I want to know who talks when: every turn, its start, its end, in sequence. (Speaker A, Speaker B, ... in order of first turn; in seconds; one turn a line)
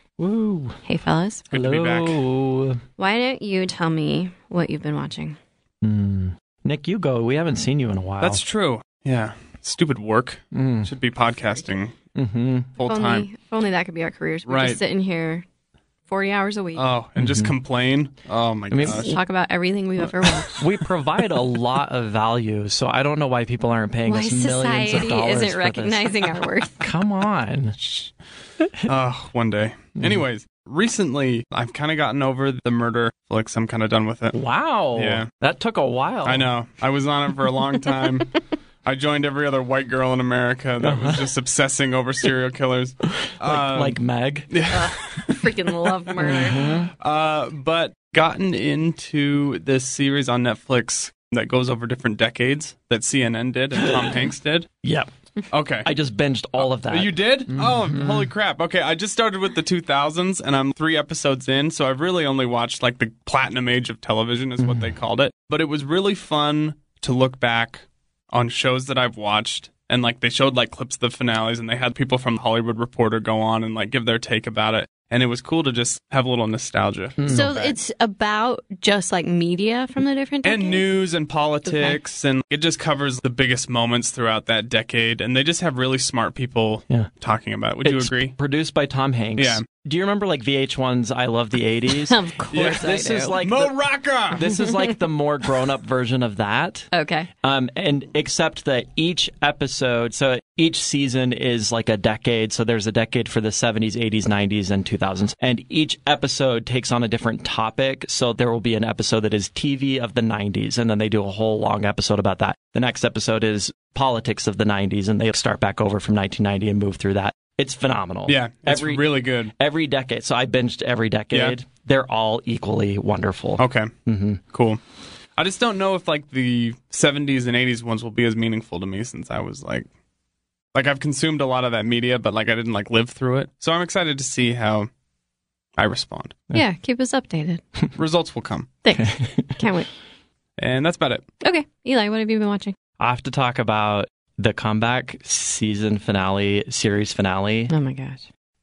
Speaker A: 0.2-0.8
Speaker B: 0.9-1.4
Speaker C: 1.5-2.2
Speaker A: 1.5-2.8
Speaker B: 3.0-5.4
Speaker A: 5.8-8.4
Speaker C: 8.2-11.9
Speaker A: 10.5-10.9
Speaker A: 12.2-12.7
Speaker C: 12.8-13.3
Speaker B: 12.9-15.4
Speaker C: 14.5-14.8
Speaker B: 16.1-16.9
Speaker C: 16.8-19.2
Speaker A: 17.2-17.5
Speaker A: 18.7-19.1
Speaker B: 18.8-20.6
Speaker A: 20.5-27.8
Speaker B: 24.1-26.9
Speaker C: 27.8-28.1
Speaker A: 28.6-28.9
Speaker C: 28.9-34.4
Speaker A: 34.3-36.5
Speaker C: 35.0-35.3
Speaker C: 36.2-38.3
Speaker C: 38.9-44.0
Speaker A: 40.8-41.3
Speaker A: 43.2-44.6
Speaker C: 44.5-45.4
Speaker B: 44.7-46.8
Speaker A: 46.2-46.9
Speaker C: 47.0-54.7
Speaker A: 53.8-54.3
Speaker A: 54.8-55.1
Speaker C: 55.5-55.9
Speaker A: 55.8-58.3
Speaker C: 56.6-77.8
Speaker A: 64.6-64.9
Speaker A: 77.2-77.5
Speaker B: 77.3-80.8
Speaker C: 80.4-88.3
Speaker B: 81.7-82.0
Speaker A: 87.8-93.8
Speaker C: 89.4-89.6
Speaker B: 92.1-93.4
Speaker C: 92.5-94.5
Speaker A: 94.3-96.9
Speaker B: 94.6-94.9
Speaker B: 96.9-97.3
Speaker A: 97.4-124.4
Speaker C: 118.3-119.5
Speaker C: 123.6-123.9
Speaker C: 124.5-124.8
Speaker C: 125.4-129.9
Speaker C: 130.7-134.9
Speaker C: 135.8-136.4
Speaker B: 136.5-137.6
Speaker C: 138.0-138.7
Speaker B: 138.8-139.9
Speaker A: 139.0-139.5
Speaker C: 140.6-141.2
Speaker B: 141.4-142.8
Speaker A: 143.0-147.7
Speaker B: 147.7-148.2